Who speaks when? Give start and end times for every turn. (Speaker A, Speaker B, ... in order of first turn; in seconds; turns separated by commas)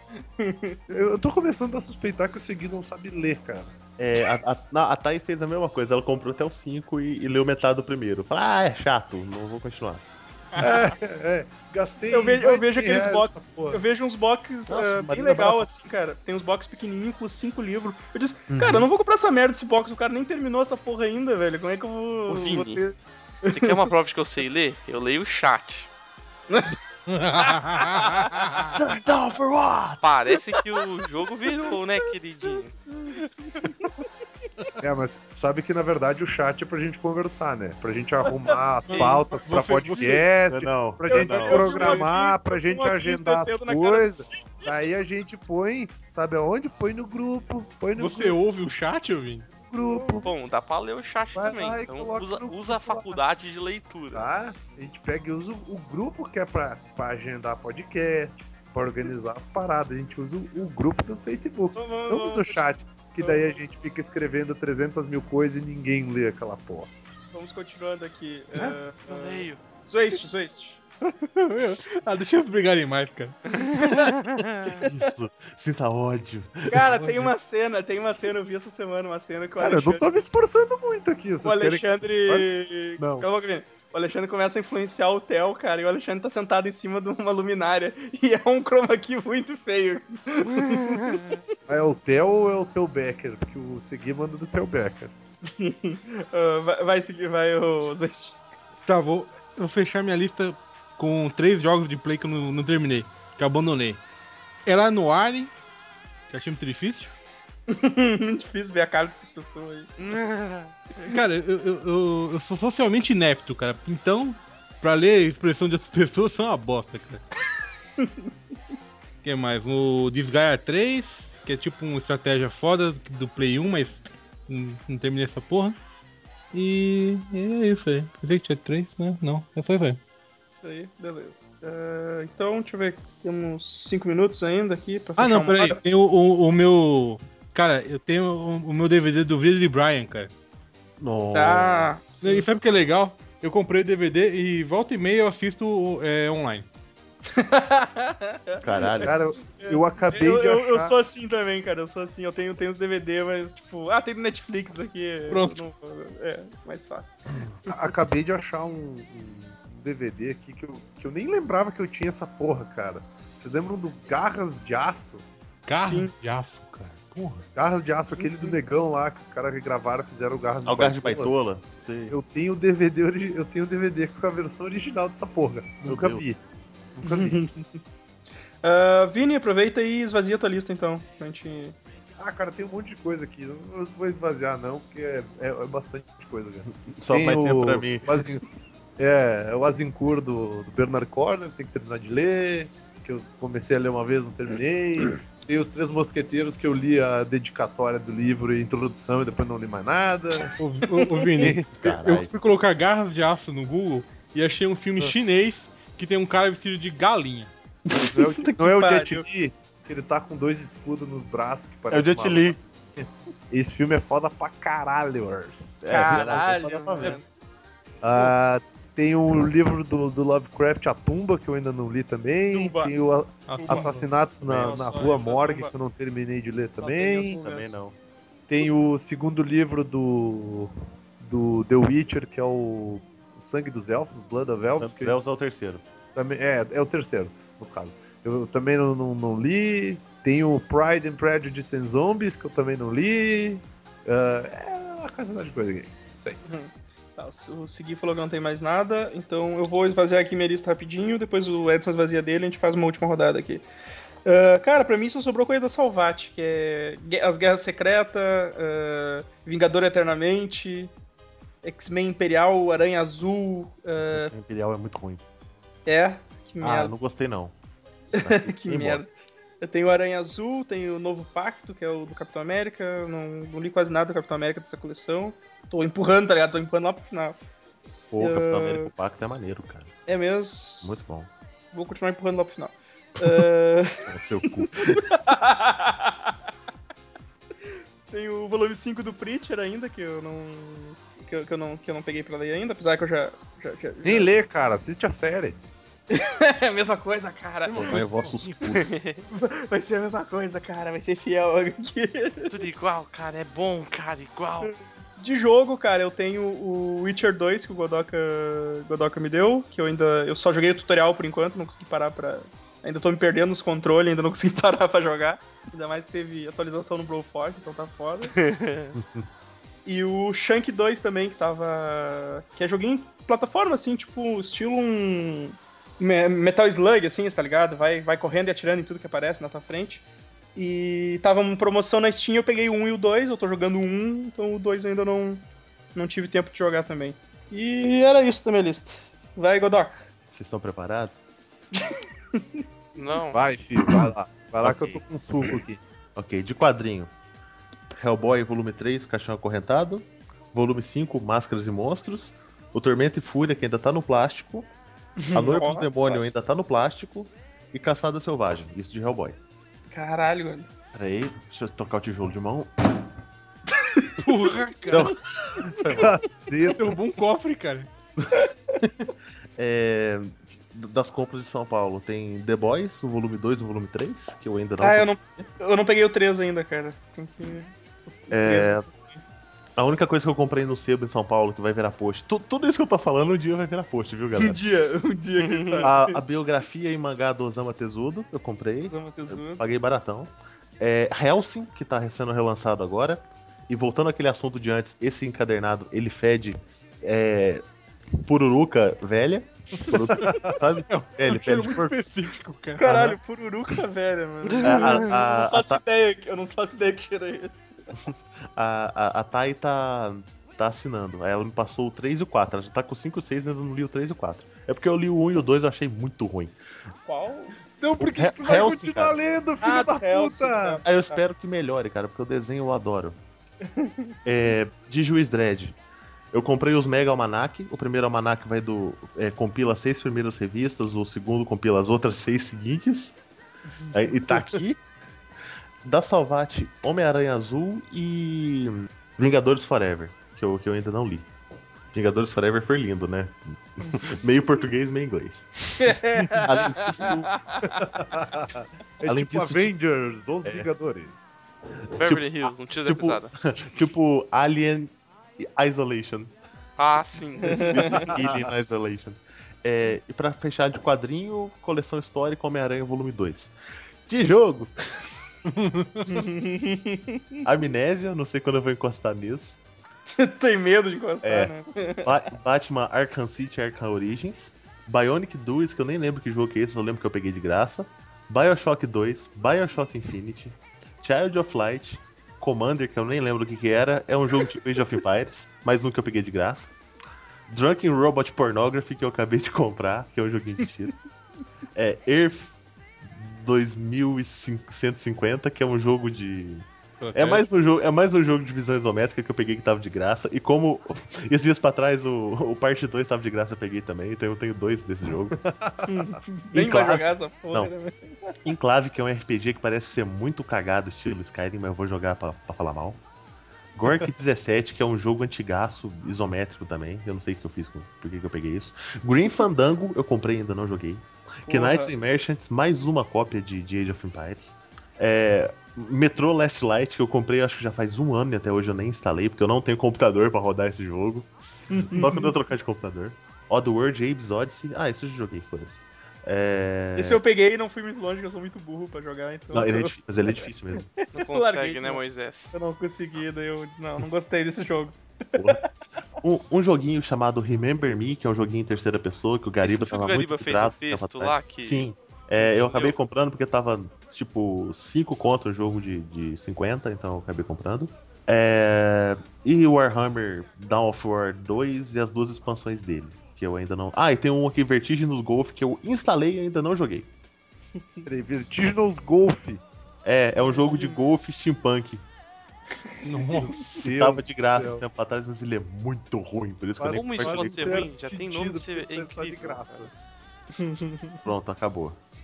Speaker A: 0.4-0.8, Speaker B: 0.9-3.7, Speaker C: 4.0-10.1, Speaker B: 10.6-13.8, Speaker A: 12.1-22.8, Speaker C: 14.7-15.7, Speaker D: 22.3-22.8, Speaker A: 23.4-23.8, Speaker D: 23.5-25.9, Speaker A: 26.5-26.8, Speaker E: 27.1-28.7, Speaker A: 28.2-28.6, Speaker C: 28.8-30.0, Speaker D: 30.0-32.8, Speaker A: 33.5-33.9, Speaker B: 34.8-48.4, Speaker E: 38.9-40.3, Speaker C: 40.5-42.0, Speaker A: 41.1-44.7, Speaker E: 48.0-49.5, Speaker B: 49.6-50.3, Speaker A: 49.9-50.3, Speaker D: 50.2-54.3, Speaker B: 51.4-53.2, Speaker B: 54.1-66.9, Speaker A: 61.8-62.6, Speaker A: 63.2-63.5, Speaker A: 67.3-70.8, Speaker D: 69.1-69.6, Speaker E: 71.4-74.1, Speaker A: 73.7-74.0, Speaker D: 73.9-74.7, Speaker C: 74.8-77.2, Speaker A: 76.7-80.0, Speaker B: 79.6-82.5, Speaker A: 81.4-91.4, Speaker C: 83.0-83.3, Speaker B: 91.7-95.1, Speaker A: 95.5-98.4, Speaker E: 98.9-104.0, Speaker E: 104.7-105.5, Speaker E: 106.3-107.1, Speaker A: 107.7-109.9, Speaker D: 110.0-110.7, Speaker E: 111.0-117.2, Speaker A: 118.0-118.3, Speaker E: 119.2-125.8, Speaker E: 126.5-130.0, Speaker A: 130.6-135.8, Speaker E: 135.2-140.3, Speaker C: 141.0-141.9, Speaker A: 141.3-142.4, Speaker E: 142.2-146.7, Speaker A: 147.3-157.2, Speaker C: 148.6-149.1, Speaker B: 149.0-150.9, Speaker E: 155.3-155.6, Speaker B: 157.7-165.3, Speaker E: 165.7-167.5, Speaker A: 165.8-166.1, Speaker B: 167.6-171.3, Speaker A: 168.1-168.6, Speaker C: 170.7-172.2, Speaker B: 172.1-176.4, Speaker C: 175.8-176.4, Speaker B: 177.0-177.4, Speaker A: 177.0-177.7, Speaker A: 178.6-181.8, Speaker B: 182.2-188.4, Speaker C: 186.7-188.1, Speaker B: 189.0-200.5, Speaker E: 200.6-207.5, Speaker A: 201.0-201.5, Speaker B: 201.4-201.7, Speaker C: 201.7-202.3, Speaker A: 208.0-209.3, Speaker B: 208.1-215.9, Speaker C: 211.9-212.6, Speaker C: 215.8-217.2, Speaker A: 215.9-217.2, Speaker B: 218.0-227.4, Speaker A: 222.5-222.9, Speaker E: 223.5-224.1, Speaker A: 223.5-223.9, Speaker C: 224.4-224.8, Speaker A: 224.5-225.7, Speaker A: 226.8-227.7, Speaker C: 227.4-228.0, Speaker B: 228.5-235.2, Speaker C: 234.8-235.8, Speaker B: 236.2-246.4, Speaker A: 246.4-253.7, Speaker A: 254.2-260.9, Speaker A: 261.6-264.3, Speaker C: 264.0-265.2, Speaker A: 265.9-267.0, Speaker C: 266.6-267.5, Speaker A: 268.1-269.1, Speaker C: 268.2-269.1, Speaker A: 269.6-277.4, Speaker C: 278.1-279.9, Speaker A: 278.2-278.9, Speaker A: 280.1-281.0, Speaker C: 280.8-281.3, Speaker A: 281.7-286.3, Speaker C: 284.1-285.1, Speaker A: 288.1-294.3, Speaker B: 294.0-295.6, Speaker A: 296.1-298.1, Speaker C: 297.7-299.0, Speaker E: 297.8-298.6, Speaker D: 298.8-299.3, Speaker A: 299.4-302.5, Speaker D: 302.5-304.7, Speaker A: 304.6-318.4, Speaker D: 318.4-318.9, Speaker C: 318.9-319.3, Speaker A: 319.9-335.4, Speaker A: 335.9-340.1, Speaker C: 340.3-341.1, Speaker A: 341.9-342.6, Speaker D: 342.9-343.4, Speaker B: 343.3-345.8, Speaker C: 344.6-345.6, Speaker C: 346.1-347.1, Speaker C: 347.9-354.7, Speaker A: 355.2-356.2, Speaker C: 355.3-359.4, Speaker A: 359.9-360.7, Speaker C: 360.9-363.0, Speaker A: 363.9-364.5, Speaker E: 364.2-365.1, Speaker C: 364.9-365.2, Speaker B: 365.8-366.9, Speaker E: 366.7-367.9, Speaker A: 368.3-368.8, Speaker C: 368.8-375.1, Speaker A: 374.8-379.2, Speaker C: 378.3-378.9, Speaker C: 379.8-384.6, Speaker A: 384.4-386.2, Speaker C: 385.8-397.6, Speaker A: 388.8-389.6, Speaker C: 398.2-402.0, Speaker A: 399.9-400.3, Speaker E: 400.9-403.0, Speaker A: 402.8-407.7, Speaker C: 402.8-403.2, Speaker C: 404.6-405.8, Speaker C: 408.1-416.6, Speaker A: 417.1-417.6, Speaker B: 417.8-420.8, Speaker C: 418.0-419.2, Speaker A: 419.6-421.2, Speaker C: 420.8-423.2, Speaker A: 423.8-424.1, Speaker C: 424.2-425.8, Speaker C: 426.3-433.2, Speaker C: 433.9-434.8, Speaker C: 435.8-441.3, Speaker C: 441.9-447.3, Speaker A: 445.8-447.8, Speaker B: 447.7-451.4, Speaker C: 449.0-449.7, Speaker C: 450.4-450.7, Speaker C: 451.9-456.3, Speaker D: 452.0-453.3, Speaker D: 456.8-458.2, Speaker C: 457.5-463.5, Speaker C: 464.1-465.1, Speaker E: 465.5-466.1, Speaker A: 466.1-467.4, Speaker C: 467.4-469.6, Speaker A: 470.1-472.1, Speaker C: 471.2-486.7, Speaker C: 487.5-490.9, Speaker C: 491.7-505.4, Speaker E: 497.0-497.4, Speaker B: 505.4-506.2, Speaker A: 505.9-508.4, Speaker C: 506.5-507.7, Speaker C: 508.4-513.0, Speaker C: 513.8-531.3, Speaker A: 521.5-521.9, Speaker A: 531.7-532.3, Speaker C: 531.8-537.2, Speaker A: 537.0-540.5, Speaker C: 539.5-540.9, Speaker A: 541.0-542.0, Speaker D: 541.1-542.5, Speaker A: 542.5-545.7, Speaker C: 545.4-545.6, Speaker C: 546.2-567.1, Speaker D: 549.6-551.9, Speaker D: 552.5-553.0, Speaker B: 568.0-569.6, Speaker C: 570.0-572.0, Speaker A: 570.5-571.0, Speaker E: 573.0-573.8, Speaker B: 573.3-574.8, Speaker C: 573.8-577.9, Speaker B: 576.8-579.9, Speaker D: 576.9-579.9, Speaker A: 580.5-581.2, Speaker C: 581.2-582.0